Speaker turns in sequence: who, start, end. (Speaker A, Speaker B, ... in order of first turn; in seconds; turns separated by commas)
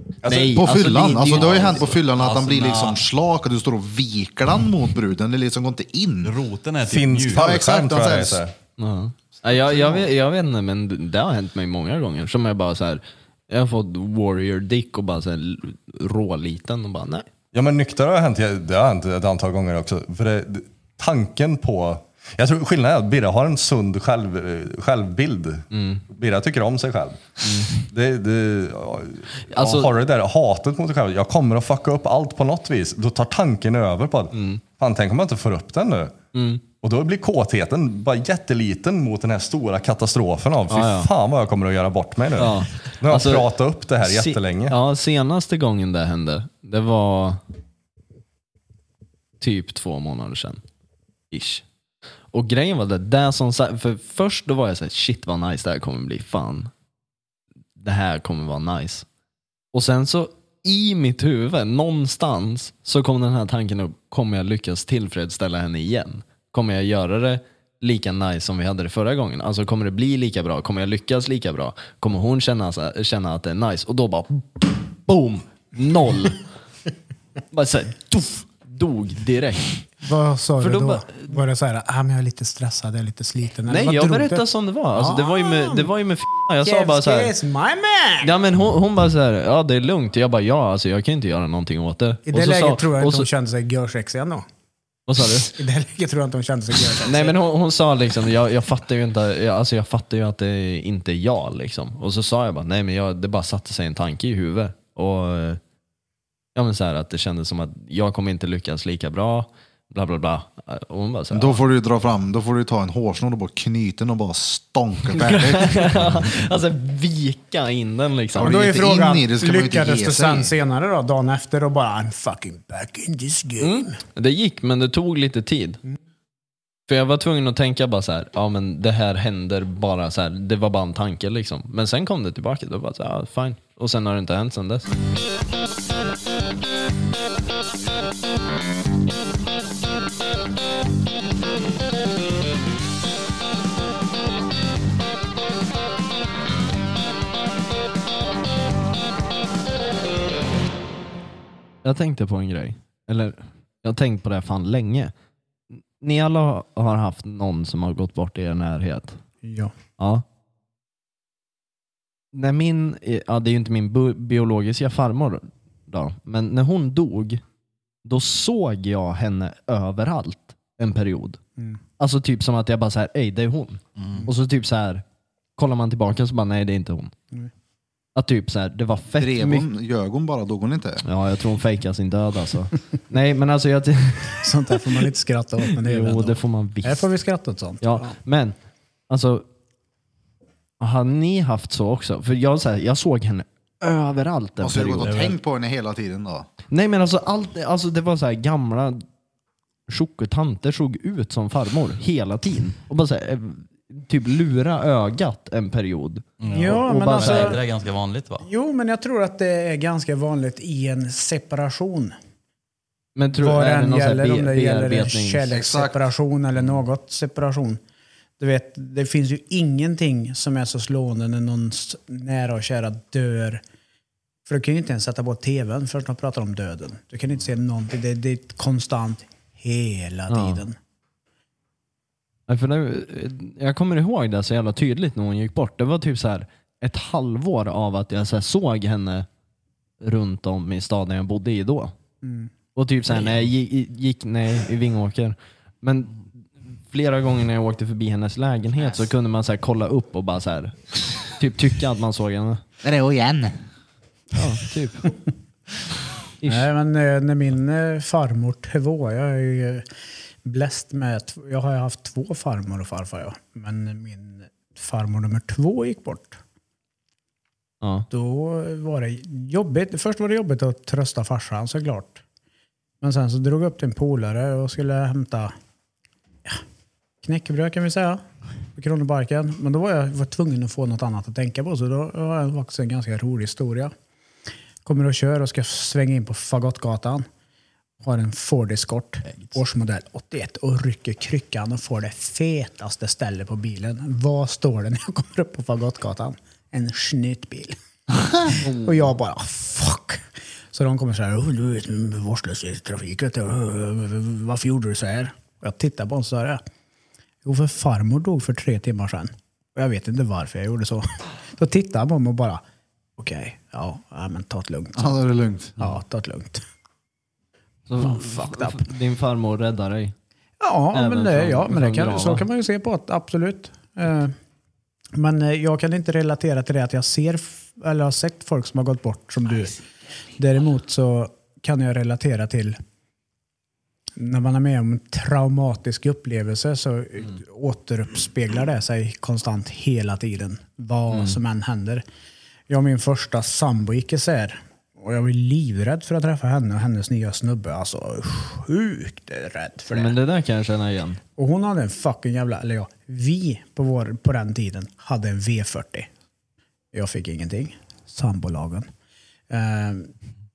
Speaker A: 0.2-1.9, Speaker B: 0.3-6.3, Speaker C: 1.3-3.0, Speaker C: 6.2-7.5, Speaker D: 6.8-8.5, Speaker B: 7.3-8.4, Speaker A: 8.8-17.3, Speaker D: 17.5-36.1, Speaker A: 25.7-26.0, Speaker A: 27.4-27.8, Speaker A: 29.5-29.9, Speaker A: 34.3-34.6, Speaker A: 36.3-36.6, Speaker D: 36.8-44.8, Speaker A: 40.7-41.1, Speaker A: 42.4-43.5, Speaker A: 44.0-47.4, Speaker A: 49.4-50.6, Speaker A: 51.3-51.6, Speaker A: 52.3-56.7, Speaker A: 57.8-59.0, Speaker A: 59.7-76.4, Speaker A: 77.5-79.8, Speaker E: 80.0-85.9, Speaker A: 80.6-81.4, Speaker A: 83.7-87.3, Speaker E: 86.6-88.3, Speaker A: 88.2-93.3, Speaker E: 92.3-94.5, Speaker A: 95.1-95.5, Speaker E: 95.5-97.3, Speaker A: 97.0-105.6, Speaker A: 106.5-111.6, Speaker B: 111.3-116.0, Speaker A: 115.1-118.6, Speaker B: 118.3-120.5, Speaker E: 118.4-124.0, Speaker A: 123.6-125.8, Speaker A: 126.9-134.9, Speaker A: 151.8-155.1, Speaker A: 155.7-159.2, Speaker E: 159.4-159.7, Speaker A: 160.0-160.2, Speaker A: 162.3-167.4, Speaker A: 168.0-171.4, Speaker A: 172.0-175.0, Speaker C: 174.0-174.3, Speaker A: 175.6-177.1, Speaker A: 178.1-179.7, Speaker B: 179.2-181.0, Speaker A: 181.0-184.7, Speaker E: 184.4-188.1, Speaker A: 185.8-187.1, Speaker A: 187.8-188.6, Speaker A: 189.1-189.4, Speaker A: 190.8-195.3, Speaker B: 194.6-196.5, Speaker A: 196.7-199.0, Speaker A: 199.9-207.6, Speaker C: 206.4-208.4, Speaker E: 206.5-207.6, Speaker E: 208.4-212.1, Speaker A: 213.2-215.5, Speaker E: 213.4-217.8, Speaker B: 215.5-216.0, Speaker E: 218.4-223.6, Speaker E: 224.4-230.8, Speaker A: 230.3-230.6, Speaker A: 232.5-239.3, Speaker A: 240.0-241.9, Speaker E: 242.2-242.5, Speaker A: 242.7-252.6, Speaker B: 252.8-253.6, Speaker A: 254.3-255.1, Speaker A: 256.4-256.7, Speaker E: 256.4-259.8, Speaker E: 260.4-266.4, Speaker A: 267.8-268.1, Speaker E: 268.1-272.2, Speaker E: 273.0-275.5, Speaker E: 277.2-278.2, Speaker E: 278.8-283.9, Speaker E: 284.8-287.2, Speaker E: 288.0-297.8, Speaker E: 298.4-306.6, Speaker A: 298.6-299.0, Speaker E: 307.4-312.6, Speaker E: 313.2-315.1, Speaker B: 314.9-315.9, Speaker E: 315.8-316.6, Speaker A: 317.9-320.1, Speaker E: 318.0-318.9, Speaker E: 320.6-324.3, Speaker A: 320.9-322.4, Speaker E: 325.1-329.8, Speaker E: 330.4-332.8, Speaker E: 334.2-342.0, Speaker A: 341.1-341.4, Speaker E: 342.7-350.2, Speaker A: 349.9-351.2, Speaker E: 351.4-356.1, Speaker E: 356.9-358.9, Speaker E: 359.5-360.1